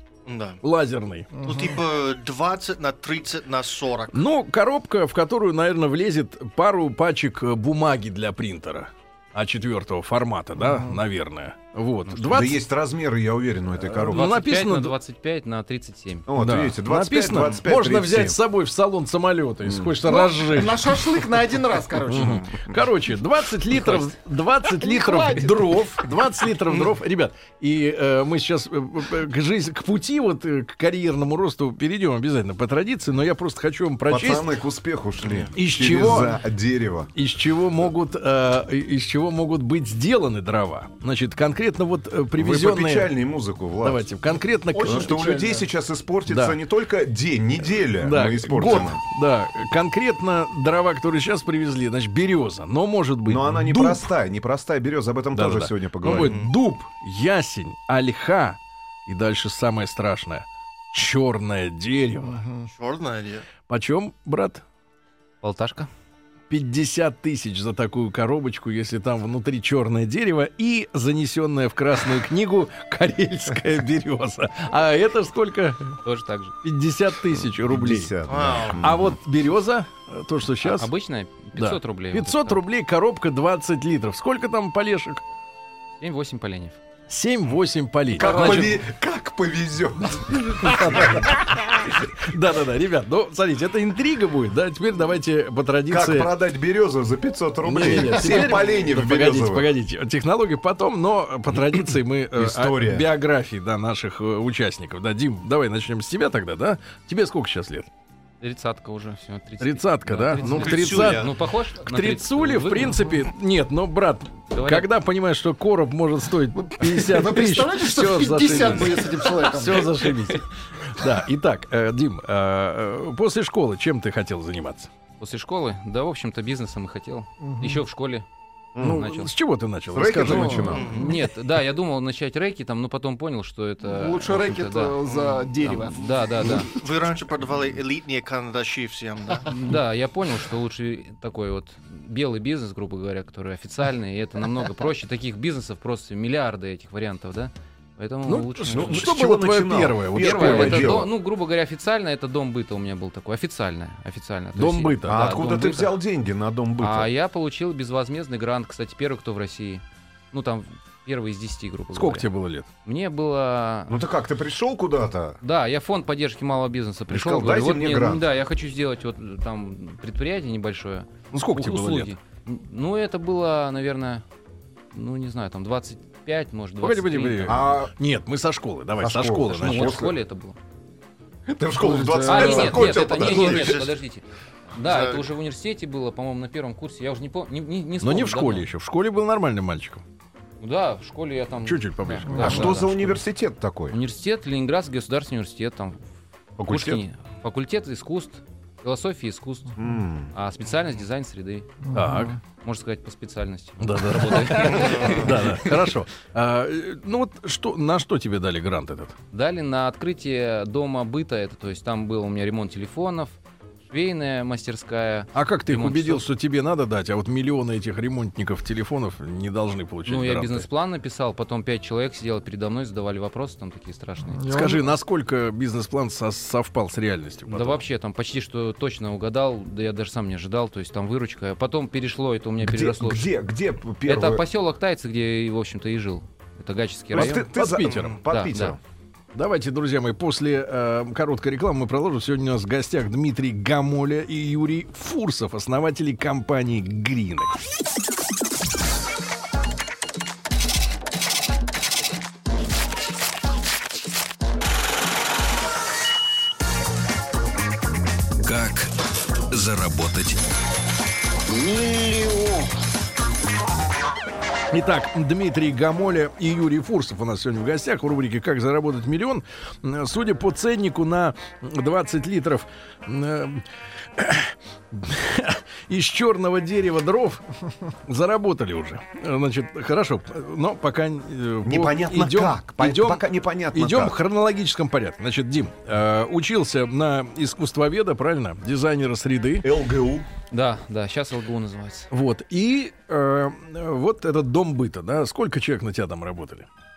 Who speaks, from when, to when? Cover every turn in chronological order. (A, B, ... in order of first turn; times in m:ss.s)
0:00.3-0:00.6 A
0:00.6-0:01.4 B
0:01.4-0:01.8 C
0:01.4-0:04.2 A
0:04.1-0:12.6 B
0:12.1-0:14.2 D
0:14.0-0:15.0 B
0:14.1-0:16.3 E
0:16.3-0:18.4 D
0:16.4-0:20.9 B
0:19.6-0:19.9 D
0:20.0-0:22.6 C
0:22.1-0:34.5 B
0:24.8-0:26.0 C
0:34.1-0:37.1 D
0:35.2-0:35.5 A
0:35.5-0:36.4 B
0:37.2-0:43.1 B
0:42.4-0:44.0 D
0:43.8-0:45.3 B
0:44.8-0:45.7 C
0:44.8-0:49.0 D
0:46.3-0:46.6 B
0:47.9-0:54.1 B
0:53.3-0:56.4 D
0:55.3-1:02.4 B
0:56.1-0:56.5 A
1:02.3-1:02.7 C
1:02.7-1:03.4 A
1:03.7-1:04.6 B
1:05.4-1:05.9 E
1:06.5-1:16.0 B
1:16.0-1:16.5 E
1:16.6-1:18.1 B
1:17.7-1:19.2 D
1:18.3-1:18.8 A
1:18.8-1:20.9 B
1:20.6-1:22.6 E
1:21.6-1:25.2 B
1:26.0-1:26.8 E
1:27.1-1:28.8 B
1:28.1-1:31.5 D
1:28.4-1:28.6 E
1:30.6-1:36.3 B
1:35.9-1:39.7 D
1:37.6-1:47.9 B
1:42.4-1:43.1 D
1:48.4-1:53.0 E
1:49.6-2:04.9 B
1:50.4-1:51.3 D
1:54.5-1:54.9 E
1:56.6-2:00.2 C
2:05.2-2:08.3 E
2:07.4-2:07.8 C
2:08.8-2:09.2 D
2:08.8-2:11.0 B
2:08.8-2:09.3 E
2:09.9-2:11.0 D
2:10.3-2:11.0 C
2:10.7-2:11.1 A
2:10.8-2:15.0 E
2:13.8-2:16.8 C
2:15.1-2:15.4 A
2:15.6-2:16.7 E
2:16.4-2:19.5 A
2:19.5-2:29.1 E
2:28.3-2:31.1 B
2:28.7-2:31.1 D
2:30.2-2:36.0 E
2:34.6-2:35.4 B
2:35.0-2:37.1 D
2:36.8-2:42.3 E
2:41.9-2:42.7 B
2:42.8-2:44.0 E
2:43.9-2:45.4 D
2:45.4-2:54.2 E
2:47.1-2:48.2 D
2:51.3-2:52.1 B
2:54.9-2:57.6 E
2:56.8-3:00.1 B
2:57.5-2:57.9 D
2:59.0-3:00.2 D
2:59.6-3:00.6 E
3:01.5-3:03.9 D
3:01.8-3:02.9 C
3:02.2-3:08.7 E
3:02.6-3:03.5 B
3:02.9-3:03.9 A
3:04.8-3:05.2 A
3:08.0-3:10.0 B
3:10.6-3:13.2 E
3:11.6-3:13.1 B
3:12.3-3:12.6 C
3:12.4-3:14.0 D
3:13.9-3:16.0 E
3:16.6-3:17.0 D
3:16.7-3:19.8 E
3:19.8-3:20.3 D
3:20.3-3:21.9 E
3:21.9-3:22.4 C
3:21.9-3:22.4 B
3:22.5-3:25.9 E
3:23.8-3:29.2 B
3:24.8-3:25.3 A
3:29.3-3:33.4 E
3:33.9-3:36.3 E
3:35.3-3:40.7 B
3:40.1-3:44.4 E
3:44.3-3:44.9 C
3:44.5-3:47.8 B
3:47.5-3:53.3 E
3:52.6-3:54.4 D
3:54.0-3:57.5 E
3:57.1-3:58.8 D
3:57.1-3:58.2 B
3:58.3-3:58.8 E
3:59.3-4:07.6 B
4:18.4-4:18.9 F
4:19.5-4:20.4 F
4:21.5-4:22.7 F
4:24.7-4:33.6 B
4:34.2-4:49.7 B
4:41.6-4:44.1 D
4:49.6-4:50.3 D
4:50.5-4:52.1 E
4:52.1-4:56.7 B